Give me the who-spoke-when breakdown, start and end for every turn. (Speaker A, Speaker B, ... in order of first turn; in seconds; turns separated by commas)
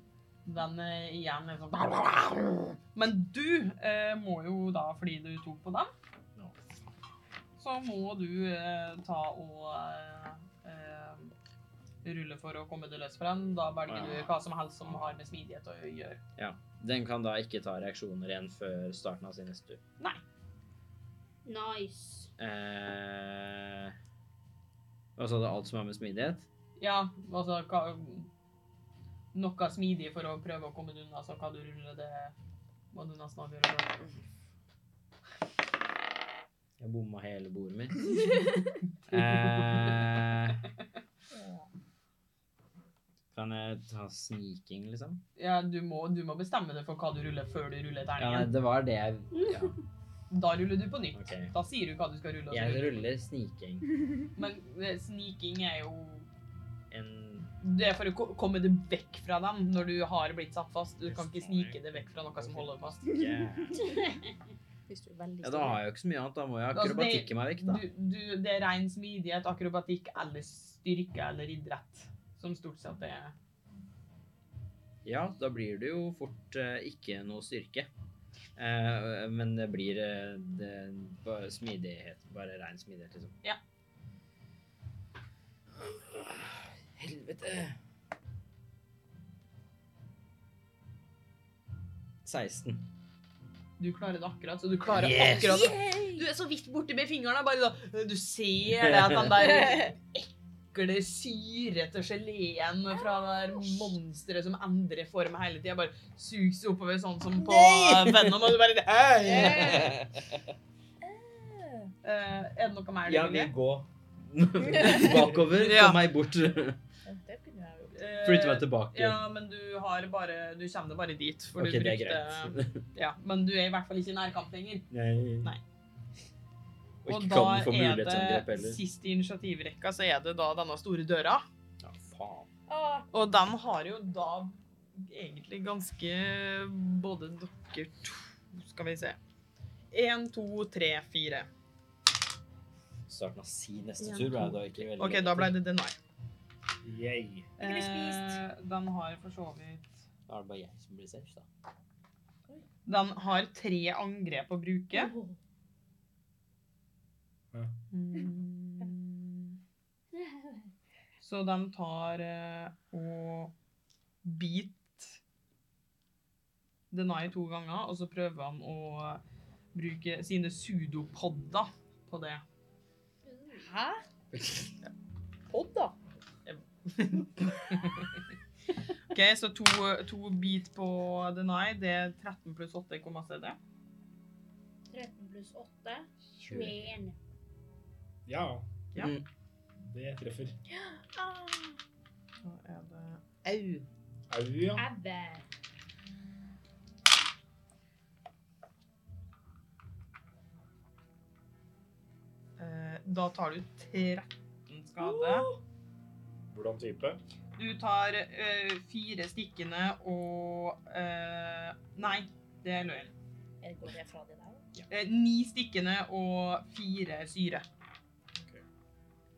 Speaker A: 0.4-5.9, Speaker A: 7.6-11.3, Speaker A: 12.0-16.2, Speaker B: 13.9-15.2, Speaker B: 16.4-19.8, Speaker C: 21.4-22.3, Speaker B: 22.4-23.9, Speaker B: 25.1-26.5, Speaker A: 26.8-28.3, Speaker A: 29.3-32.3, Speaker A: 32.9-34.1, Speaker B: 36.8-38.4, Speaker A: 39.0-40.1, Speaker B: 39.1-40.6, Speaker D: 41.3-41.7, Speaker B: 43.3-45.2, Speaker A: 45.4-48.5, Speaker B: 48.2-49.8, Speaker C: 49.3-49.8, Speaker A: 50.3-53.0, Speaker B: 51.1-51.5, Speaker B: 52.5-53.9, Speaker A: 54.4-56.3, Speaker B: 56.9-57.5, Speaker A: 57.6-63.0, Speaker B: 61.0-64.0, Speaker D: 64.9-65.8, Speaker B: 65.4-67.8, Speaker A: 66.7-73.3, Speaker B: 75.0-77.9, Speaker B: 78.5-83.3, Speaker B: 85.8-87.8, Speaker B: 92.2-92.8, Speaker A: 93.8-109.9, Speaker B: 94.9-95.7, Speaker D: 95.4-96.2, Speaker B: 98.8-99.3, Speaker D: 99.5-99.9, Speaker D: 103.0-103.8, Speaker B: 107.4-108.5, Speaker D: 109.2-110.0, Speaker B: 109.2-110.5, Speaker D: 111.0-111.9, Speaker A: 112.0-113.5, Speaker B: 113.0-116.8, Speaker D: 114.7-115.1, Speaker A: 114.8-116.0, Speaker D: 117.0-118.0, Speaker A: 117.9-124.9, Speaker B: 118.2-119.2, Speaker B: 121.6-122.8, Speaker B: 124.9-125.5, Speaker B: 127.0-128.8, Speaker A: 127.0-131.4, Speaker B: 131.8-132.5, Speaker D: 132.7-133.1, Speaker A: 133.1-139.2, Speaker A: 139.9-141.5, Speaker B: 143.1-145.5, Speaker A: 144.0-145.9, Speaker E: 146.8-147.5, Speaker A: 147.6-150.0, Speaker D: 147.6-148.4, Speaker B: 150.3-151.5, Speaker A: 152.8-155.1, Speaker C: 154.9-155.3, Speaker A: 157.9-159.6, Speaker A: 161.2-163.5, Speaker A: 164.2-165.2, Speaker A: 166.9-169.2, Speaker A: 169.7-172.4, Speaker C: 173.3-173.7, Speaker D: 173.5-174.0, Speaker B: 174.3-174.7, Speaker D: 175.5-175.9, Speaker A: 176.4-178.1, Speaker A: 179.1-183.6, Speaker C: 184.9-187.2, Speaker B: 186.4-186.8, Speaker E: 188.2-188.7, Speaker B: 189.0-189.2, Speaker E: 189.8-190.5, Speaker D: 190.7-191.8, Speaker A: 192.4-193.2, Speaker B: 193.4-193.8, Speaker E: 194.3-194.9, Speaker C: 194.8-195.4, Speaker A: 202.6-205.5, Speaker D: 205.0-205.6, Speaker E: 206.5-207.2, Speaker A: 207.6-213.1, Speaker D: 213.6-214.6, Speaker A: 214.9-217.6